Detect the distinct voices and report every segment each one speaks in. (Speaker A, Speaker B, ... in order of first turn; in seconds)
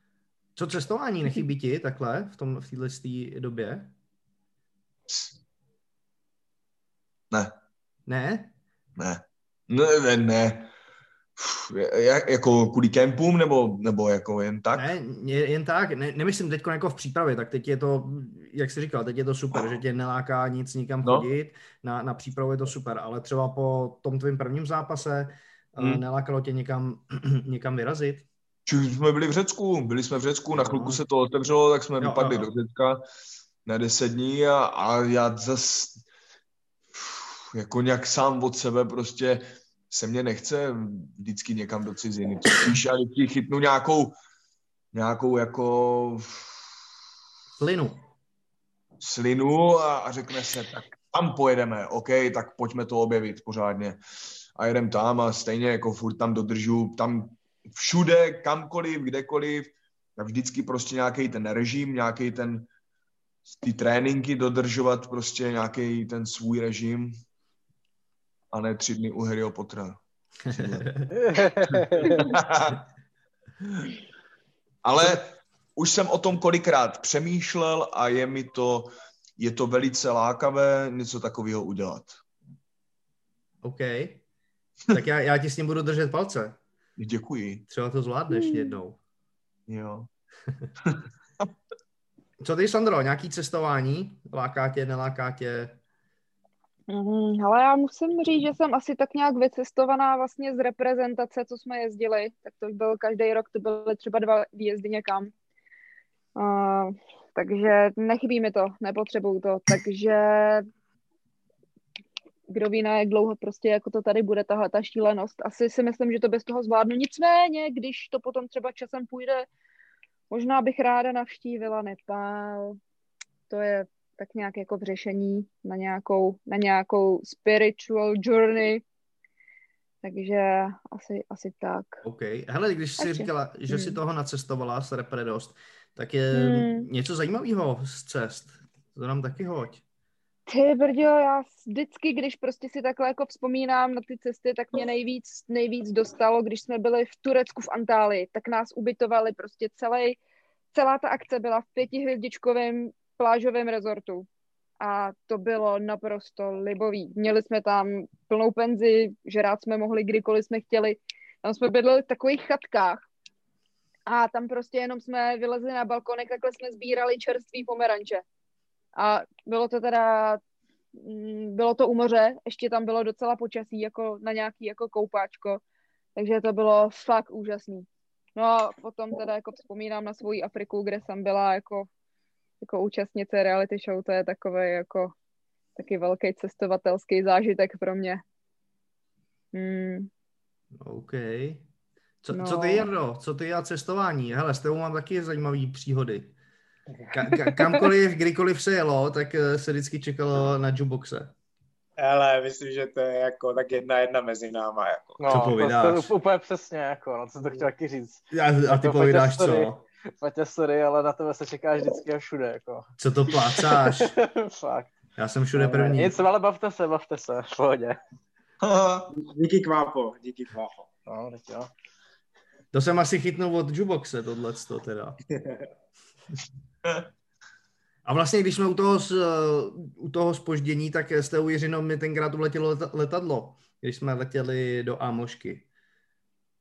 Speaker A: 0.6-3.9, 8.1-8.5, 14.8-28.3, 30.5-31.0, 32.0-32.5, 47.5-48.0, 70.5-70.9, 83.6-84.2, 84.9-86.6, 87.7-89.0, 92.4-95.8, 132.0-139.8, 190.8-191.7, 192.2-196.3, 197.1-201.3, 205.3-206.1, 208.3-209.8, 213.0-214.2, 215.2-216.1, 222.7-225.2, 228.1-235.7
Speaker B: 5.1-5.4, 9.0-10.7, 11.4-14.9, 28.7-33.0, 33.6-36.0, 37.0-44.2, 44.9-46.6, 49.0-54.0, 54.6-62.7, 63.5-67.1, 68.5-70.9, 71.8-72.8, 74.8-82.2, 87.0-87.7, 89.7-90.1, 218.6-219.1
Speaker C: 71.1-72.3, 205.2-214.9, 215.8-218.0, 221.1-221.7
Speaker D: 88.3-88.8, 96.9-105.3, 106.4-110.7, 112.5-119.5, 120.3-122.8, 123.5-128.8, 130.0-132.0, 133.0-134.0, 136.3-136.9, 140.5-150.2, 150.7-154.3, 154.8-163.1, 164.1-168.2, 169.0-170.4, 170.9-175.6, 176.2-181.9, 182.6-185.1, 185.8-188.2, 189.5-190.1, 192.3-192.9, 197.5-197.8
Speaker E: 202.0-205.3, 215.6-216.0, 219.1-220.9, 225.4-225.6